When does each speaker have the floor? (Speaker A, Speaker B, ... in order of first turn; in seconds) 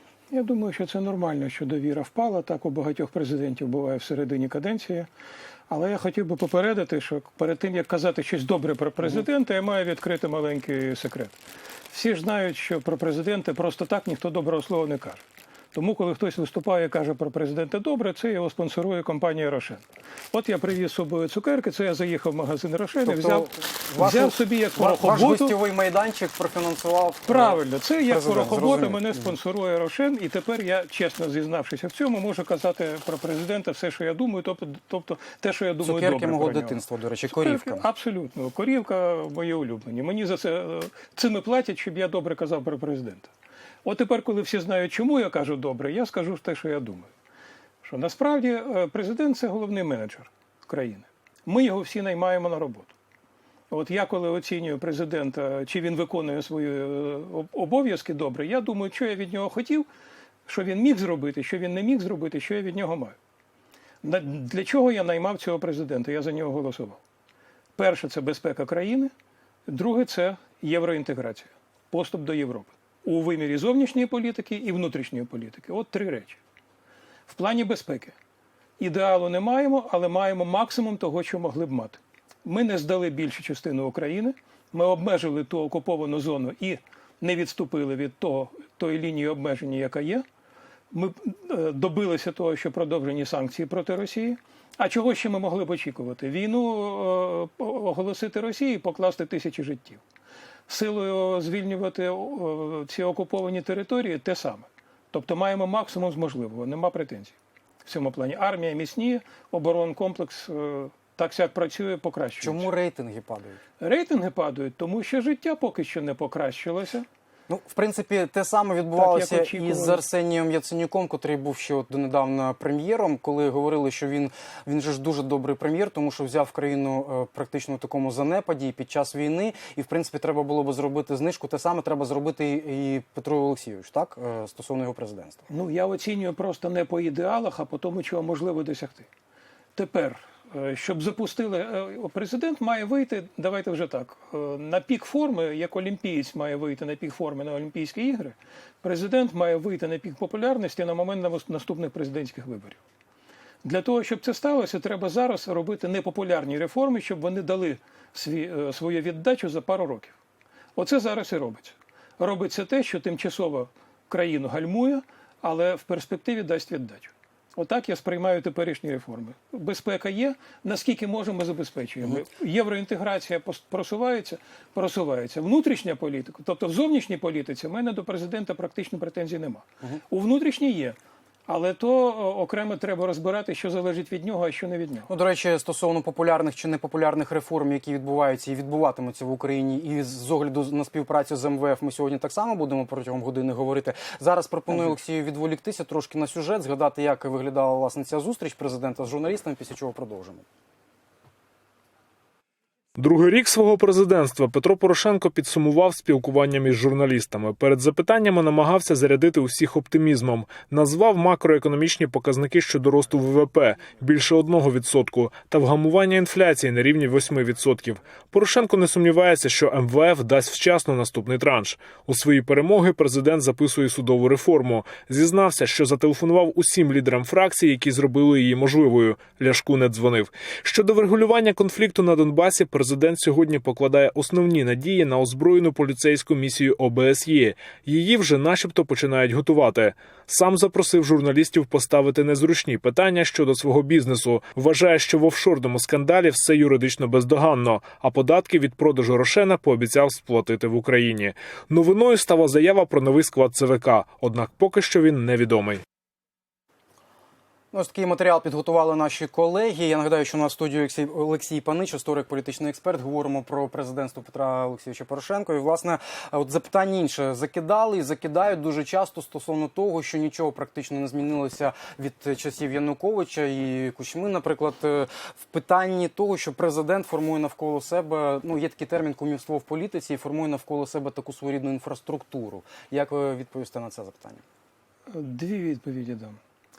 Speaker A: 0.3-5.1, 5.7-11.4, 11.9-25.5, 27.3-43.3, 43.8-47.1, 47.8-52.9, 53.7-59.9, 60.5-63.1, 64.0-67.0, 67.8-69.1, 69.7-76.4, 77.3-78.1, 78.8-90.2, 90.9-100.0, 100.7-107.3, 107.8-112.7, 113.8-117.0, 118.9-120.0, 135.5-139.1, 139.8-152.8, 153.6-160.2, 160.8-185.1, 285.1-286.4
Speaker B: 23.0-29.3, 35.8-37.8, 112.4-113.6, 117.5-135.4, 185.1-200.4, 257.7-284.4
Speaker C: 202.9-255.8